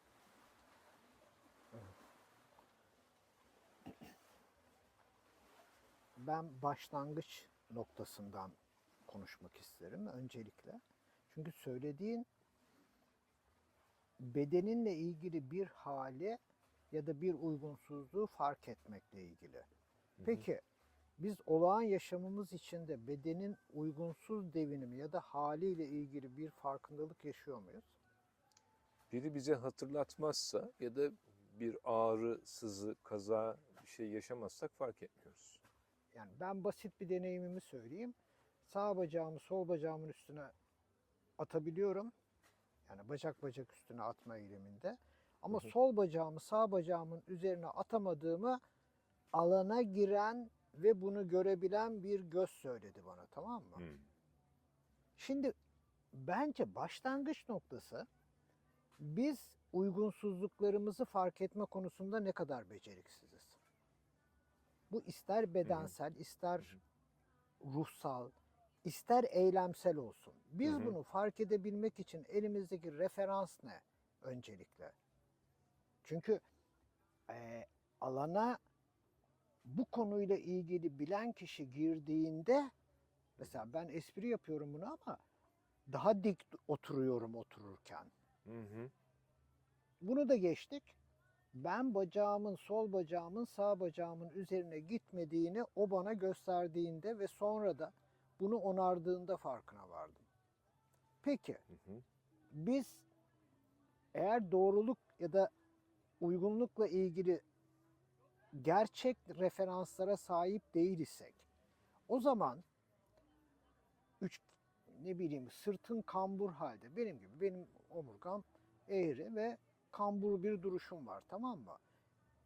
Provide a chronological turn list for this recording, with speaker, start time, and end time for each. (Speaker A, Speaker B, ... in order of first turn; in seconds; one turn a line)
Speaker A: 6.2-8.6
Speaker A: 9.1-12.3
Speaker A: 14.2-16.4
Speaker A: 16.9-19.7
Speaker B: 20.2-20.5
Speaker A: 20.2-20.6
Speaker A: 21.2-27.9
Speaker B: 29.1-35.6
Speaker A: 36.1-40.5
Speaker A: 41.4-42.1
Speaker A: 42.9-48.6
Speaker A: 49.3-53.9
Speaker B: 53.8-54.0
Speaker A: 55.2-55.5
Speaker A: 56.1-58.1
Speaker A: 59.0-63.6
Speaker A: 64.9-66.8
Speaker B: 65.7-65.9
Speaker A: 67.6-68.3
Speaker A: 68.8-75.0
Speaker B: 70.6-71.0
Speaker A: 76.0-76.4
Speaker A: 77.3-78.6
Speaker A: 79.7-82.7
Speaker A: 83.4-85.2
Speaker A: 85.9-88.1
Speaker B: 88.5-88.9
Speaker A: 90.0-91.0
Speaker A: 91.5-100.3
Speaker A: 101.2-101.6
Speaker A: 102.5-103.1
Speaker A: 104.1-105.5
Speaker A: 106.2-107.4
Speaker A: 108.5-111.5
Speaker A: 112.1-112.6
Speaker A: 114.2-121.8